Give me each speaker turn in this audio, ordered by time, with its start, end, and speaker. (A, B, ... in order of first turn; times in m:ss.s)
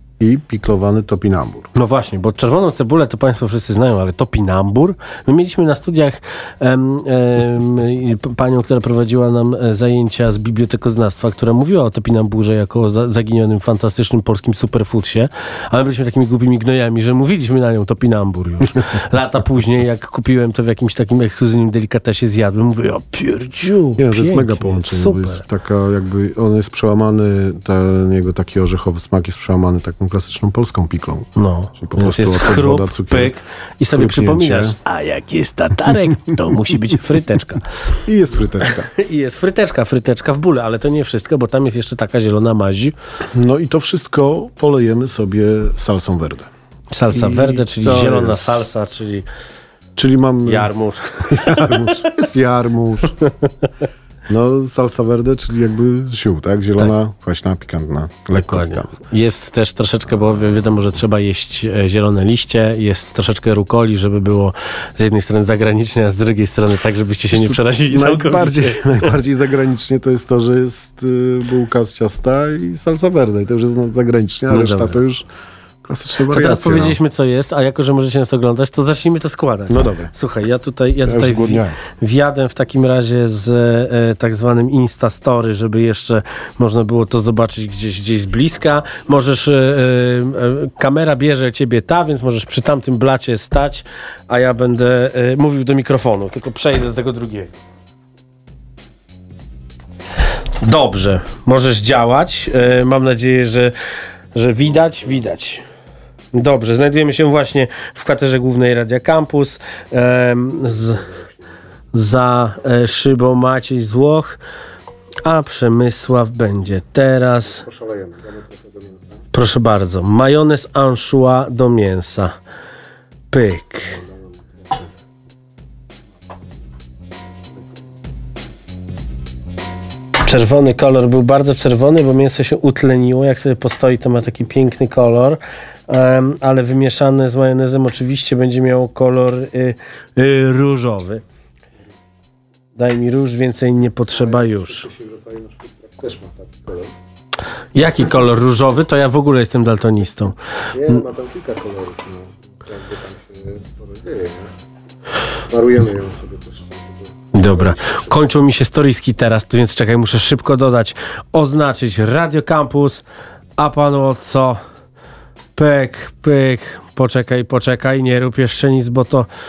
0:00.2-0:01.7 A
0:01.8-0:25.4 B
0:24.0-0:33.4 A
0:31.4-0:37.6 B
0:33.9-0:34.8 A
0:38.0-0:38.9 A
0:38.6-0:43.0 B
0:43.3-0:46.5 A
0:46.9-0:49.3 B
0:47.1-0:48.7 A
0:50.0-0:50.7 A
0:50.5-0:52.1 B
0:51.3-0:53.2 A
0:54.3-0:58.9 A
0:58.4-1:09.2 B
1:07.3-1:15.3 A
1:14.5-1:15.0 B
1:15.8-1:17.0 A
1:16.3-1:37.5 B
1:19.7-1:20.1 A
1:21.0-1:21.8 A
1:40.6-1:43.7 B
1:44.3-1:45.6 B
1:46.3-1:51.0 B
1:50.6-1:51.3 A
1:51.9-1:54.4 B
1:55.2-1:57.7 B
1:57.5-1:59.1 A
1:59.3-2:02.3 B
2:03.3-2:04.0 B
2:10.3-2:21.2 B
2:22.8-2:24.9 B
2:24.1-2:26.9 A
2:27.8-2:30.4 B
2:30.7-2:34.5 A
2:35.3-2:38.1 A
2:37.3-2:43.0 B
2:43.6-2:44.6 B
2:45.6-2:49.3 B